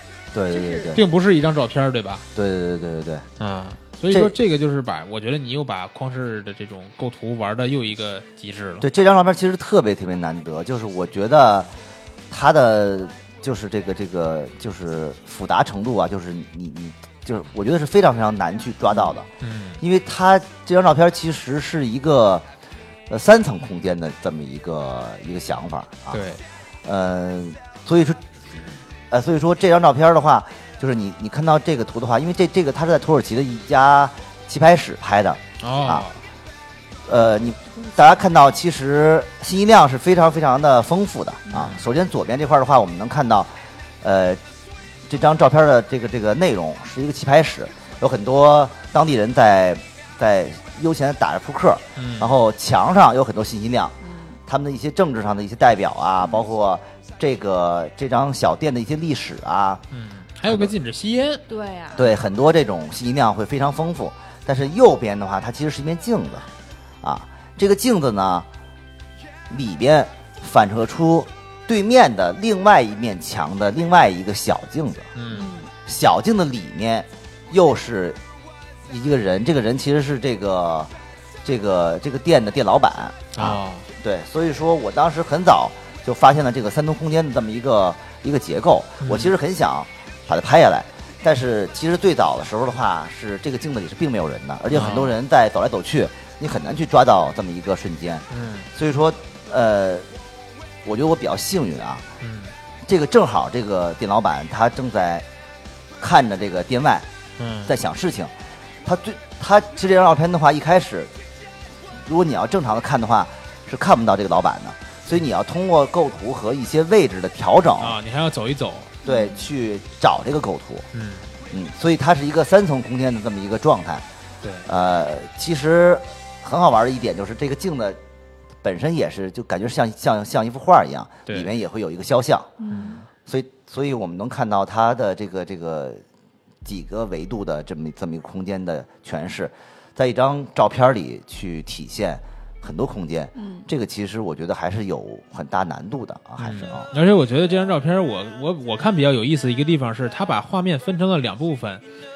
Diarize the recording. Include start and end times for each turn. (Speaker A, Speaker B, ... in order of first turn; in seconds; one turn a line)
Speaker A: 0.3-1.1
Speaker B: 0.5-1.0
Speaker C: 0.9-2.2
Speaker A: 2.4-3.3
Speaker C: 3.4-8.9
Speaker A: 4.1-4.4
Speaker A: 8.8-11.7
Speaker A: 12.3-19.3
Speaker C: 19.4-19.8
Speaker A: 19.8-22.5
Speaker A: 23.1-26.3
Speaker C: 26.1-26.4
Speaker A: 26.9-28.2
Speaker A: 29.1-36.1
Speaker C: 35.6-36.2
Speaker A: 37.1-44.4
Speaker C: 41.5-41.9
Speaker A: 45.1-54.0
Speaker C: 52.0-52.3
Speaker B: 54.0-54.4
Speaker A: 54.5-59.8
Speaker C: 59.9-61.4
Speaker A: 60.5-60.7
Speaker B: 61.5-62.1
Speaker A: 62.0-66.5
Speaker A: 67.0-68.5
Speaker A: 69.5-75.1
Speaker C: 75.2-75.5
Speaker B: 75.3-75.7
Speaker A: 75.9-78.2
Speaker A: 78.9-80.9
Speaker A: 81.4-100.1
Speaker C: 83.3-83.9
Speaker C: 89.0-89.3
Speaker C: 94.7-95.2
Speaker C: 98.3-98.7
Speaker A: 100.8-102.0
Speaker C: 102.2-102.5
Speaker A: 102.9-105.3
Speaker A: 106.0-107.1
Speaker C: 107.4-107.8
Speaker A: 107.7-108.3
Speaker A: 108.8-111.1
Speaker A: 112.0-118.0
Speaker C: 117.8-119.0
Speaker B: 119.0-119.4
Speaker A: 119.1-120.9
Speaker C: 120.9-121.3
Speaker A: 121.5-124.1
Speaker C: 124.4-124.7
Speaker A: 124.7-128.0
Speaker A: 128.6-132.5
Speaker B: 132.6-133.0
Speaker C: 132.7-133.0
Speaker A: 133.2-136.0
Speaker A: 136.6-146.9
Speaker B: 143.4-143.7
Speaker C: 146.4-151.8